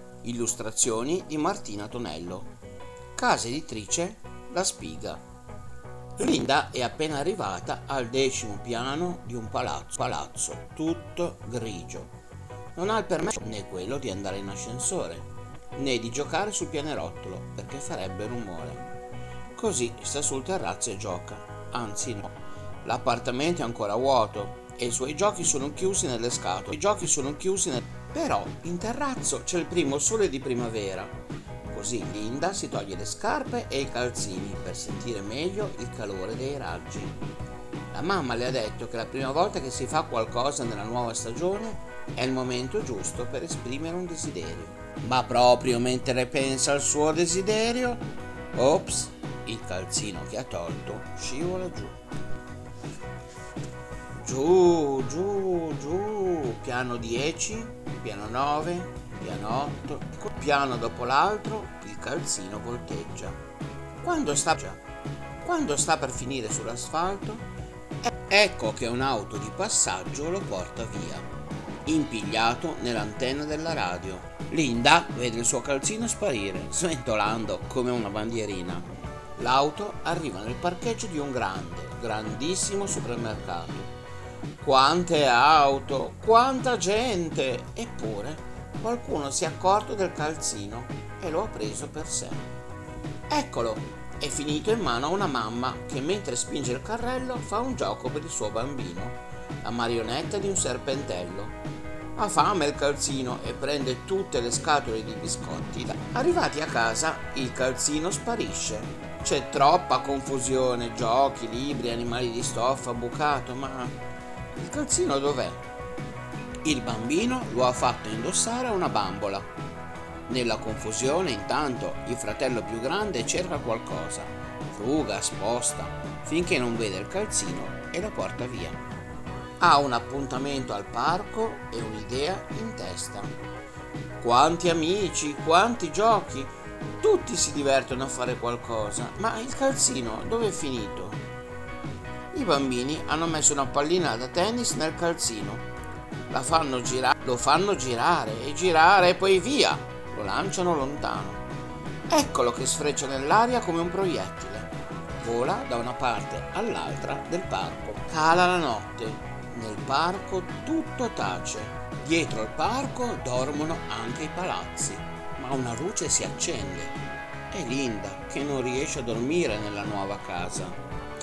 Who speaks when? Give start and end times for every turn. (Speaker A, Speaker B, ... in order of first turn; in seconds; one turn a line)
Speaker A: 0.2-2.5
Speaker A: 3.1-5.2
Speaker A: 6.2-12.1
Speaker A: 12.7-18.9
Speaker A: 19.5-37.1
Speaker A: 37.9-52.0
Speaker A: 54.1-63.4
Speaker A: 64.0-64.8
Speaker A: 65.4-67.5
Speaker A: 68.0-71.3
Speaker A: 71.8-83.9
Speaker A: 84.6-92.5
Speaker A: 93.3-101.6
Speaker A: 102.1-114.0
Speaker A: 114.5-115.6
Speaker A: 116.6-119.5
Speaker A: 120.3-128.8
Speaker A: 129.6-133.3
Speaker A: 134.2-141.2
Speaker A: 142.3-145.7
Speaker A: 146.3-151.4
Speaker A: 152.1-167.0
Speaker A: 167.5-170.8